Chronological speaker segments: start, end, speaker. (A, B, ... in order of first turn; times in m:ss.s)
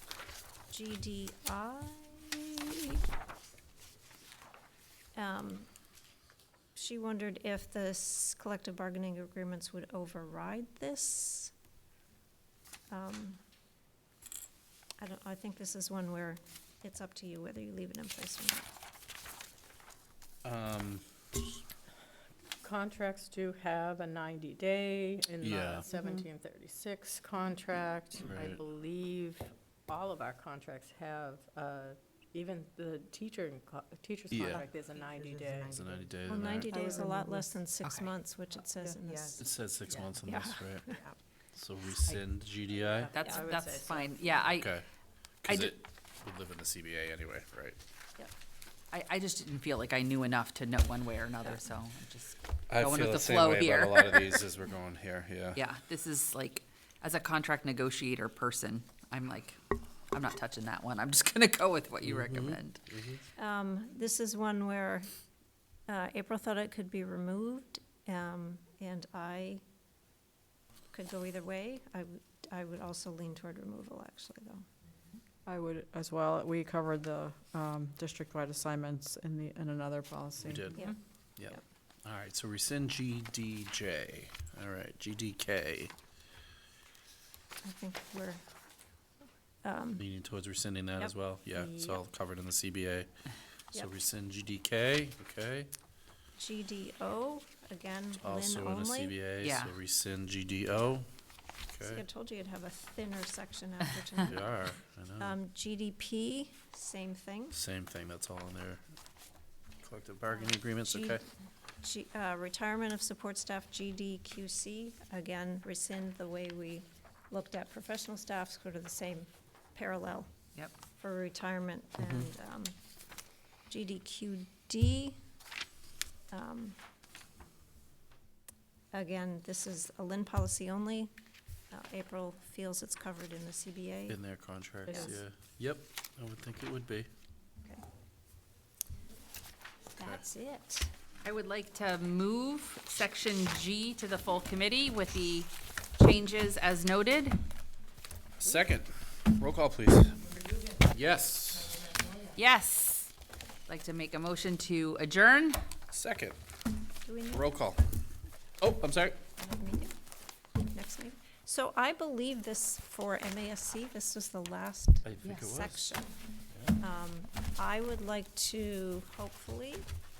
0:00.7-0:03.0 A
0:05.2-0:05.7 A
0:06.7-0:11.5 A
0:12.9-0:13.4 A
0:15.0-0:18.7 A
0:20.4-0:21.0 B
0:22.6-0:35.8 C
0:25.4-0:25.8 B
0:25.9-0:26.3 A
0:28.2-0:28.6 B
0:34.3-0:34.7 B
0:34.6-0:37.4 D
0:35.7-0:36.7 B
0:36.2-0:39.4 A
0:37.8-0:38.1 E
0:38.8-0:39.4 D
0:39.4-0:40.9 B
0:40.2-0:41.0 A
0:41.5-0:43.1 B
0:42.8-0:44.5 C
0:43.1-0:44.7 E
0:44.5-0:44.8 B
0:45.4-0:47.8 B
0:45.5-0:45.7 E
0:48.9-0:54.4 E
0:52.7-0:55.6 B
0:55.5-0:59.6 E
1:00.1-1:02.8 E
1:02.0-1:03.2 B
1:03.4-1:05.1 A
1:05.9-1:09.6 A
1:10.9-1:14.6 A
1:15.4-1:20.8 D
1:20.4-1:20.8 B
1:21.4-1:25.9 B
1:27.6-1:28.4 A
1:29.6-1:30.0 A
1:30.0-1:33.1 B
1:31.5-1:32.0 C
1:33.7-1:35.7 B
1:36.4-1:39.2 A
1:38.2-1:41.1 B
1:39.4-1:39.7 E
1:41.7-1:42.0 B
1:41.8-1:44.5 A
1:44.3-1:45.3 B
1:45.2-1:47.6 A
1:47.5-1:48.8 B
1:49.8-1:51.2 B
1:50.3-1:51.2 A
1:51.8-2:00.3 A
2:01.0-2:02.8 A
2:02.0-2:02.3 B
2:03.7-2:05.2 A
2:06.3-2:06.8 A
2:08.9-2:11.1 A
2:11.7-2:14.2 A
2:14.1-2:17.1 B
2:20.0-2:20.9 A
2:21.2-2:27.4 E
2:28.4-2:32.0 B
2:32.3-2:33.1 E
2:33.7-2:35.6 E
2:35.9-2:36.4 B
2:37.0-2:37.5 A
2:37.3-2:37.8 B
2:38.6-2:39.2 B
2:39.4-2:39.9 A
2:40.6-2:46.1 A
2:45.0-2:45.9 B
2:46.8-2:49.8 A